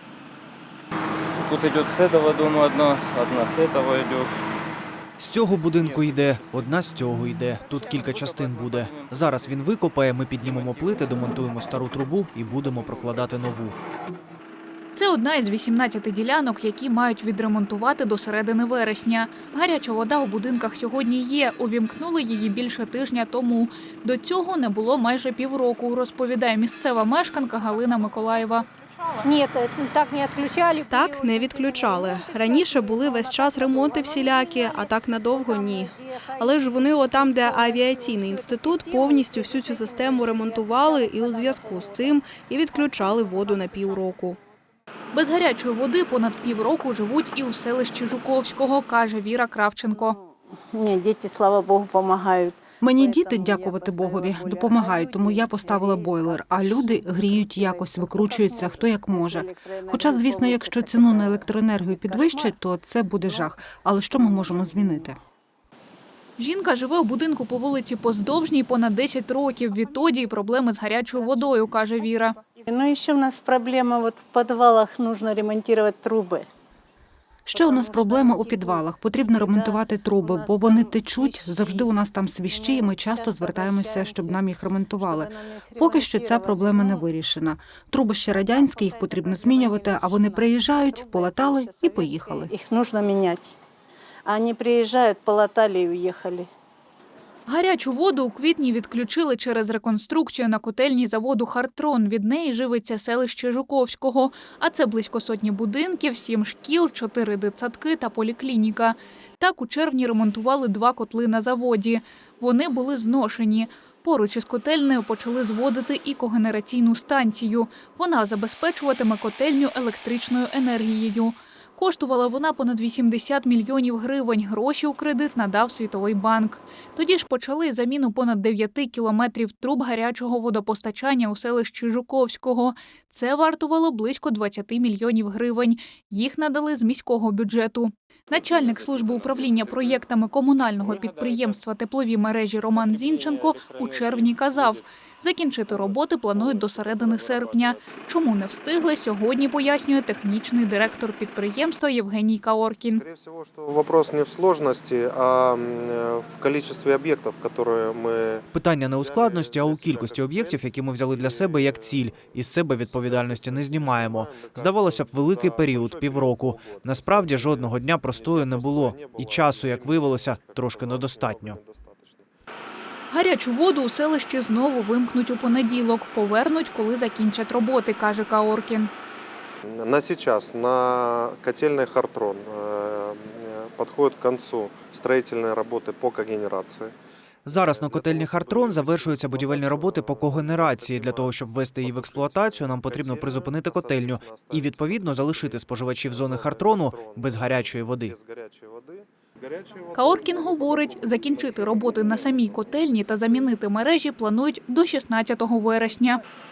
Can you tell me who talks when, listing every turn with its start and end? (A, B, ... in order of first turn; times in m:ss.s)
0:01.4-0:04.4 A
0:05.2-0:13.7 B
0:05.5-0:06.6 A
0:07.7-0:09.6 A
0:10.4-0:11.3 A
0:12.6-0:13.2 A
0:14.9-0:28.6 C
0:29.2-0:42.2 D
0:30.9-0:44.4 E
0:31.2-0:31.5 A
0:42.8-0:43.2 D
0:45.1-0:50.2 C
0:50.0-1:02.6 D
0:52.8-1:05.2 F
1:03.2-1:05.2 D
1:06.4-1:12.4 C
1:12.7-1:16.5 D
1:17.4-1:32.5 F
1:17.5-1:21.9 D
1:22.4-1:24.4 D
1:25.0-1:27.1 D
1:28.3-1:33.6 D
1:34.2-1:36.5 D
1:37.5-2:33.0 C
2:18.5-2:20.0 A
2:20.9-2:21.4 A
2:22.8-2:24.8 A
2:25.8-2:27.8 A
2:32.9-2:52.3 G
2:38.5-2:51.6 B
2:53.1-2:58.9 C
2:59.6-3:06.9 G
3:07.4-3:18.2 B
3:07.5-3:22.8 G
3:19.9-3:26.2 C